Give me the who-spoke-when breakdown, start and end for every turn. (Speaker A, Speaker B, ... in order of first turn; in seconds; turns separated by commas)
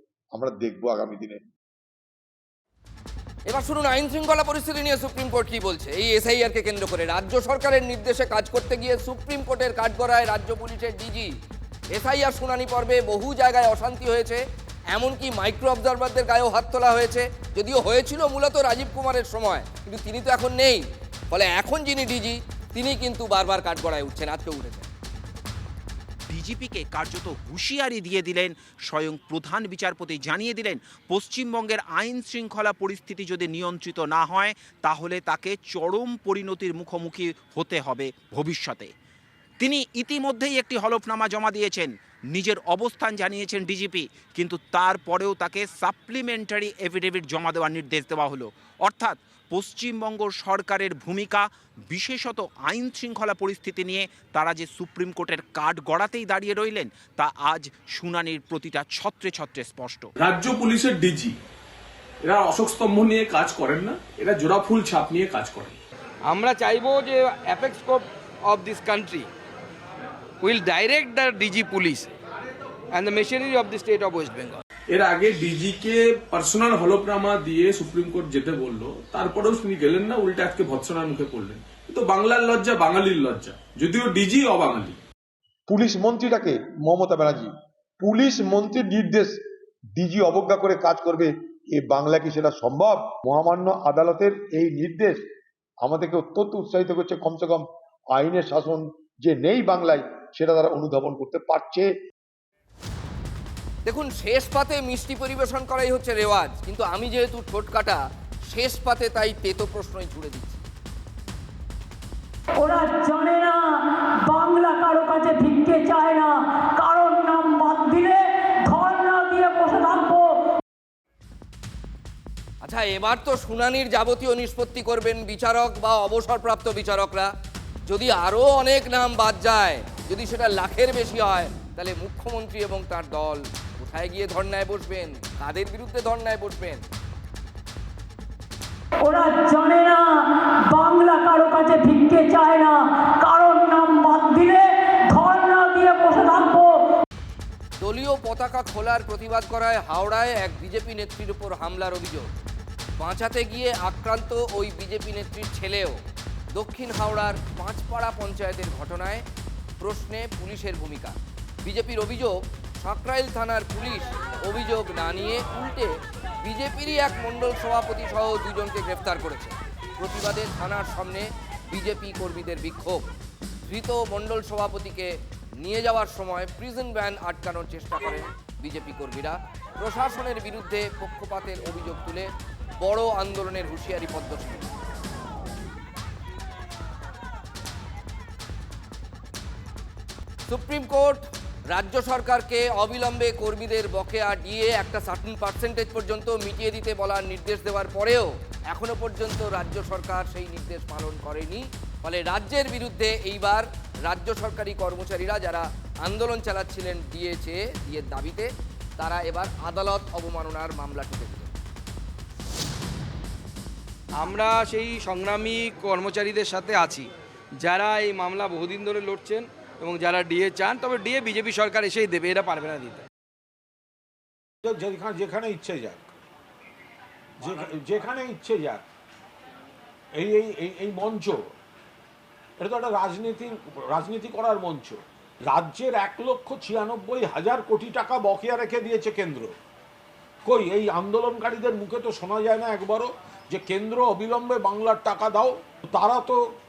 Speaker A: 0.3-1.4, Speaker B: 3.5-11.3, Speaker B: 11.9-14.4, Speaker B: 14.9-24.9, Speaker C: 26.3-38.9, Speaker C: 39.6-60.1, Speaker D: 60.2-61.3, Speaker D: 62.3-65.7, Speaker E: 66.3-69.3, Speaker E: 70.4-72.1, Speaker E: 72.9-74.6, Speaker D: 74.9-85.0, Speaker A: 85.7-89.3, Speaker A: 90.0-95.2, Speaker A: 95.8-97.6, Speaker A: 98.2-101.9, Speaker B: 103.8-110.6, Speaker F: 112.6-120.4, Speaker B: 122.6-127.3, Speaker B: 127.9-136.8, Speaker F: 139.0-146.7, Speaker B: 147.8-152.3, Speaker B: 153.0-156.0, Speaker B: 156.5-159.2, Speaker B: 159.8-165.9, Speaker B: 166.4-173.1, Speaker B: 173.7-182.3, Speaker B: 182.8-184.7, Speaker B: 190.5-191.2, Speaker B: 191.7-211.5, Speaker E: 214.2-217.1, Speaker E: 217.6-223.1, Speaker G: 224.6-226.1, Speaker G: 227.4-228.8, Speaker G: 230.1-231.5, Speaker G: 232.6-239.5, Speaker G: 240.4-246.4